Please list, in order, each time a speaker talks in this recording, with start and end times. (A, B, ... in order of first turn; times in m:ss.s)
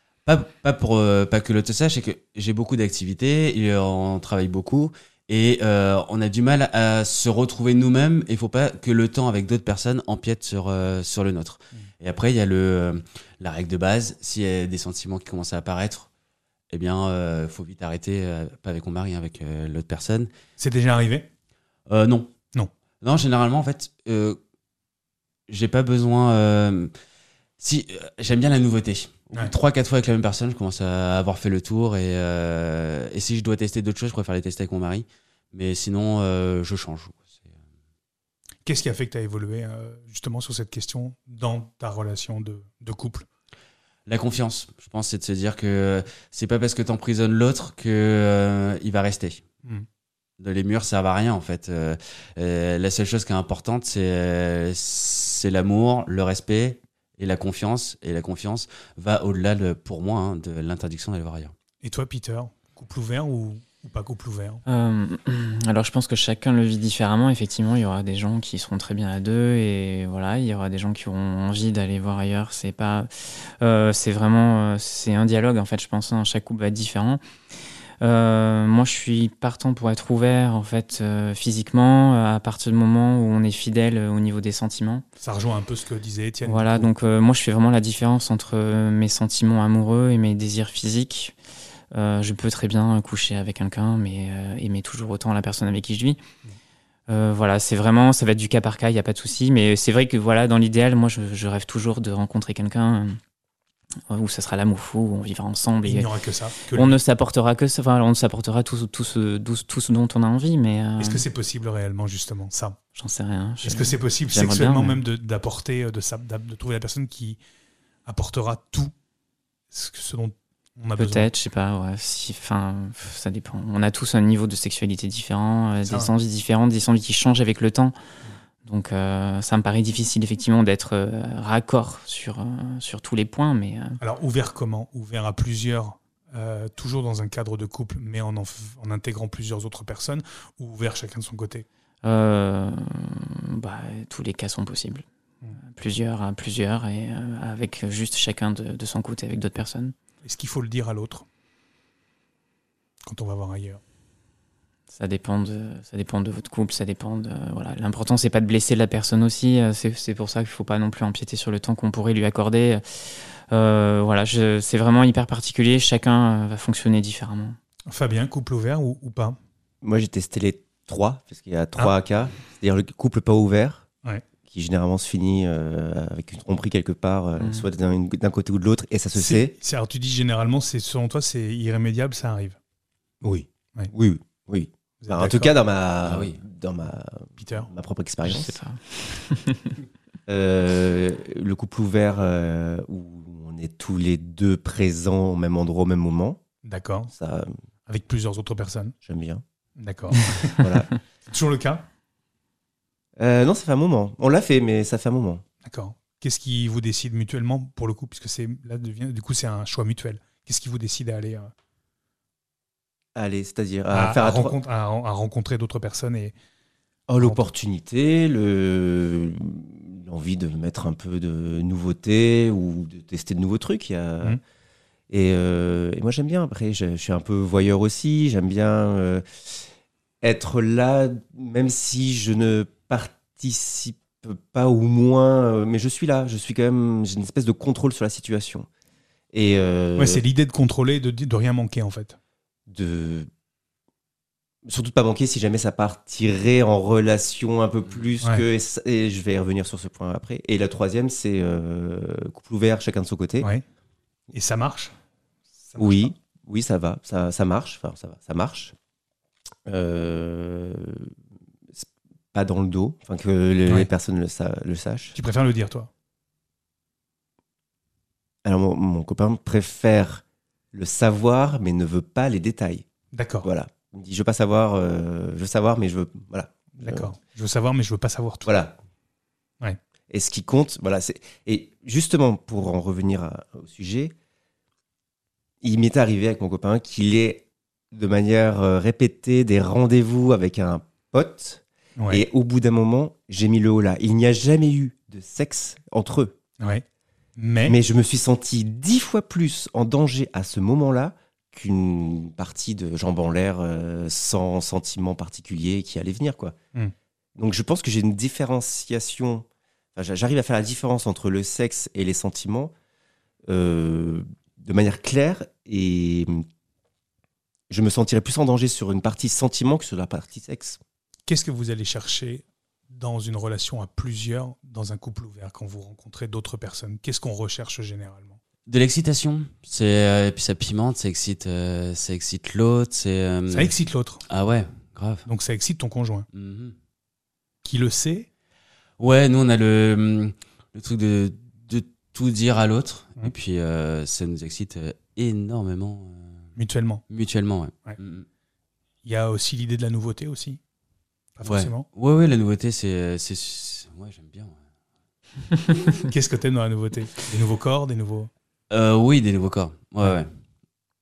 0:00.3-0:16.1 A
0:16.7-0:20.3 A
0:20.6-0:21.3 B
0:21.9-0:22.3 A
0:23.0-0:24.4 A
0:25.5-0:26.9 A
0:27.6-0:37.2 A
0:38.7-0:43.3 B
0:44.1-0:49.4 A
0:50.4-1:01.5 A
1:01.8-1:04.6 B
1:04.7-1:17.2 C
1:18.0-1:25.1 C
1:25.2-1:26.9 B
1:26.4-1:31.4 C
1:31.9-1:36.2 C
1:37.1-1:43.2 C
1:44.1-1:46.1 C
1:45.8-1:47.0 B
1:46.7-1:51.2 C
1:51.0-1:52.8 B
1:53.0-1:55.0 C
1:53.6-1:57.4 B
1:58.1-1:58.9 B
1:59.7-2:01.3 B
2:01.0-2:08.0 C
2:05.8-2:06.1 B
2:08.6-2:14.0 C
2:14.0-2:21.7 B
2:22.0-2:25.0 C
2:25.6-2:30.0 C
2:30.2-2:31.3 B
2:33.0-2:33.8 B
2:34.9-2:47.6 C
2:47.9-2:49.4 B
2:49.8-2:53.9 D
2:54.5-2:59.6 D
2:57.4-2:57.7 C
2:59.2-3:02.6 B
3:03.2-3:08.6 D
3:05.0-3:05.6 B
3:06.0-3:06.4 A
3:07.4-3:07.7 B
3:08.2-3:09.7 C
3:10.3-3:16.4 D
3:16.6-3:17.1 B
3:17.1-3:17.6 D
3:17.9-3:19.0 B
3:19.0-3:19.4 D
3:19.8-3:20.7 B
3:20.6-3:20.9 D
3:21.3-3:21.9 B
3:23.2-3:25.4 D
3:25.7-3:31.5 B
3:33.2-3:34.6 D
3:33.9-3:36.4 B
3:37.1-3:44.4 D
3:45.1-3:49.7 D
3:50.2-3:58.7 D
3:59.3-4:00.2 D
4:00.0-4:02.2 B
4:02.7-4:03.3 D
4:04.7-4:13.5 D
4:14.3-4:14.9 B
4:15.6-4:16.1 B
4:15.8-4:18.8 D
4:19.7-4:21.1 D
4:21.7-4:25.2 D
4:25.2-4:25.9 B
4:28.4-4:32.9 D
4:33.1-4:33.5 B
4:33.4-4:37.1 D
4:36.8-4:38.5 B
4:38.4-4:38.8 D
4:40.1-4:44.1 D
4:45.6-4:56.4 D
4:52.0-4:52.3 B
4:57.4-4:57.8 B
4:57.6-5:06.6 D
5:07.4-5:12.7 D
5:13.5-5:16.4 D
5:17.7-5:20.8 D
5:21.3-5:28.4 B
5:28.7-5:33.7 A
5:33.5-5:34.2 B
5:34.3-5:35.3 A
5:35.3-5:36.3 B
5:36.3-5:36.8 A
5:37.6-5:38.3 B
5:39.0-5:46.4 A
5:46.6-5:47.0 B
5:47.1-5:48.3 A
5:49.0-5:50.6 B
5:51.4-5:51.9 B
5:51.4-5:54.6 A
5:56.0-5:58.3 B
5:58.7-6:00.3 A